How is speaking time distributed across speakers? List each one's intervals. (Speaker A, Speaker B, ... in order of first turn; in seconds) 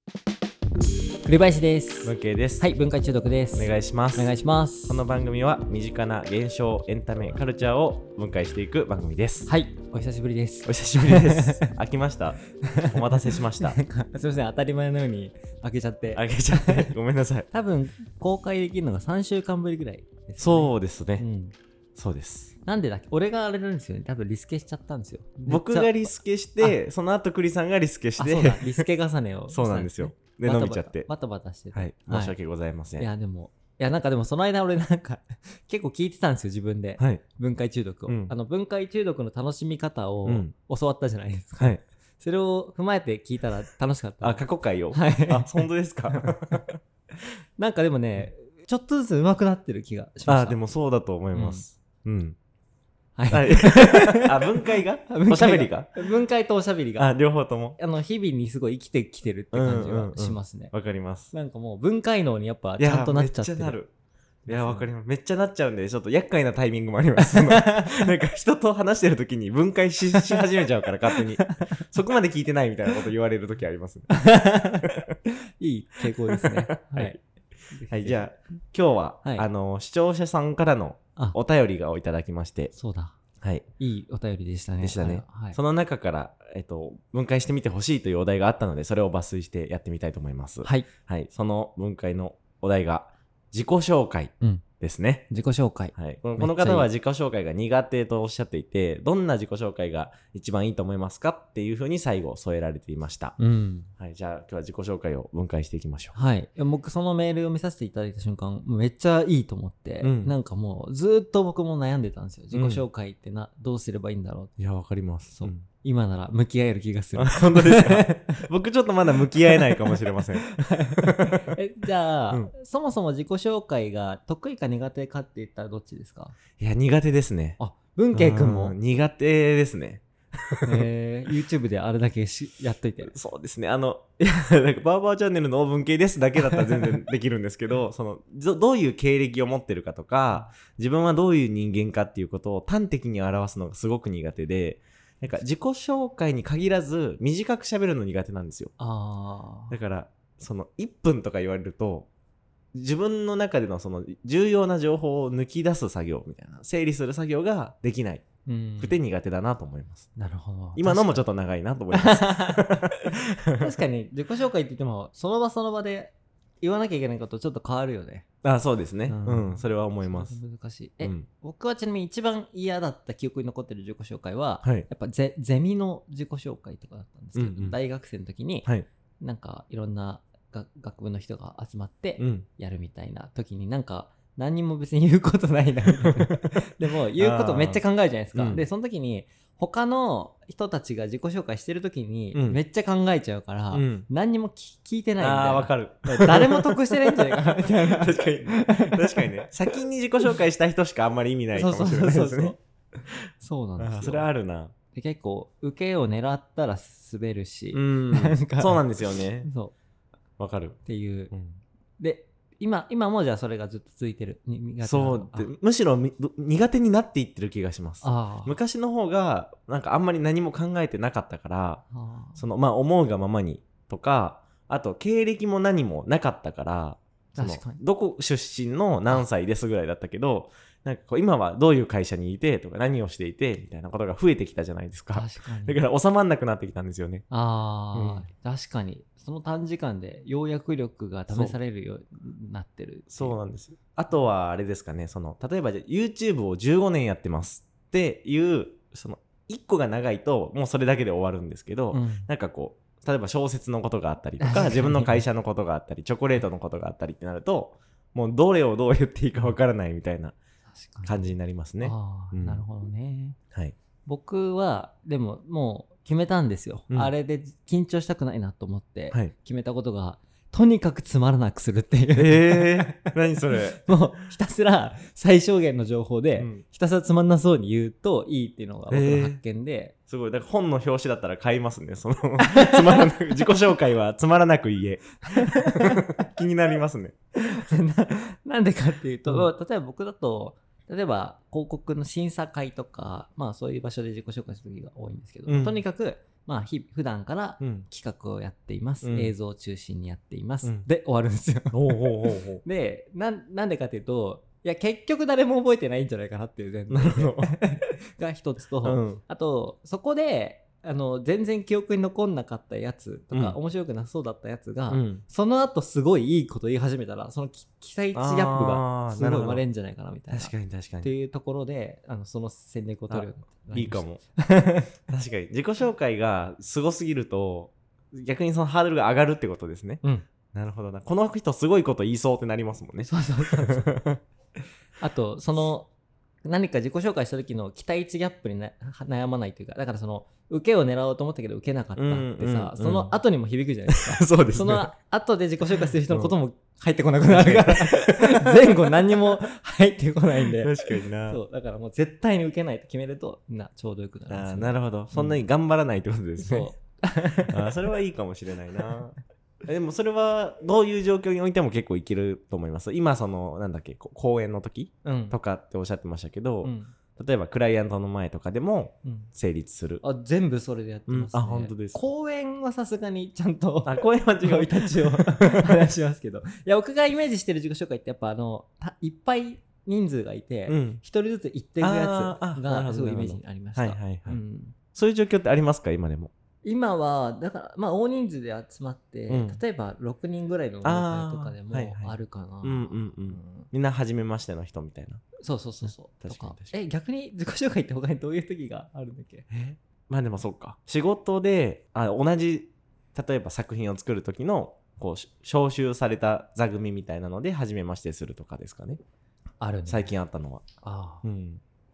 Speaker A: 1.2-5.0, 9.5-11.7, 12.6-16.9, 17.5-21.5, 22.6-26.1, 28.2-32.4, 33.0-46.6, 47.6-50.6, 51.3-51.6, 53.2-57.1, 57.8-60.7, 61.3-63.8, 64.5-64.9, 67.2-68.1, 71.2-71.8, 74.1-77.2, 77.7-78.2, 82.7-83.2, 83.8-85.6, 95.3-96.9, 103.4-103.9, 106.1-114.5, 115.3-118.5, 119.2-126.4, 127.6-128.8, 130.6-133.1, 136.4-137.0, 148.8-149.8, 158.4-159.0, 160.2-161.2, 161.9-162.9, 163.5-168.2, 169.1-178.7, 179.2-199.5, 201.5-202.6, 203.4-204.3, 204.9-209.7, 210.8-211.3, 212.0-215.5, 218.0-218.6, 221.9-222.4, 227.3-227.8, 235.1-235.8, 237.3-243.4, 251.9-252.3, 254.4-255.2, 260.7-261.2, 261.8-263.4, 264.1-279.9, 282.4-283.4, 285.3-286.2, 287.4-324.9, 333.0-334.0, 335.0-335.9, 336.4-355.4, 356.4-357.7, 365.0-365.4, 366.6-366.9, 369.0-369.3, 370.0-384.8, 386.6-393.7, 395.4-399.5, 409.6-410.1, 410.8-411.2
Speaker B: 2.0-2.7, 3.5-4.3, 4.9-9.5, 10.6-13.8, 16.1-17.5, 20.4-21.2, 21.9-22.6, 25.4-28.8, 29.5-31.1, 31.7-33.1, 38.1-38.3, 40.2-40.5, 44.2-46.8, 50.3-52.4, 53.3-56.0, 57.0-57.8, 59.5-61.3, 62.8-63.9, 64.5-74.2, 74.8-75.1, 76.3-77.2, 77.9-82.7, 83.4-83.7, 84.8-95.3, 95.9-103.3, 104.0-106.2, 110.0-110.3, 112.5-112.8, 114.6-115.6, 117.2-121.5, 126.6-127.6, 128.1-130.8, 133.1-148.7, 149.7-152.1, 152.7-158.3, 158.8-160.1, 160.8-163.7, 168.4-170.4, 171.0-171.3, 177.3-177.8, 182.2-182.4, 185.9-186.6, 187.2-187.8, 188.3-188.6, 192.3-192.6, 193.7-194.1, 195.2-202.5, 203.8-204.7, 207.7-209.5, 210.4-210.8, 211.3-211.6, 214.8-221.8, 222.4-237.2, 237.9-238.3, 243.1-260.4, 261.0-262.6, 272.1-273.8, 276.4-276.6, 278.9-279.4, 280.1-287.1, 295.5-295.8, 297.6-297.8, 299.0-299.3, 301.7-302.6, 306.9-307.6, 308.8-309.2, 313.3-313.6, 314.9-315.2, 318.1-319.6, 320.3-321.1, 323.1-324.2, 325.1-334.2, 341.9-343.1, 343.9-344.9, 345.8-346.3, 347.3-349.2, 350.6-351.4, 354.3-356.7, 357.5-370.0, 371.1-372.0, 373.8-375.8, 380.7-381.0, 381.8-384.4, 384.9-386.3, 389.3-389.6, 390.8-395.3, 395.8-396.8, 399.5-409.0, 409.9-410.7, 411.2-411.6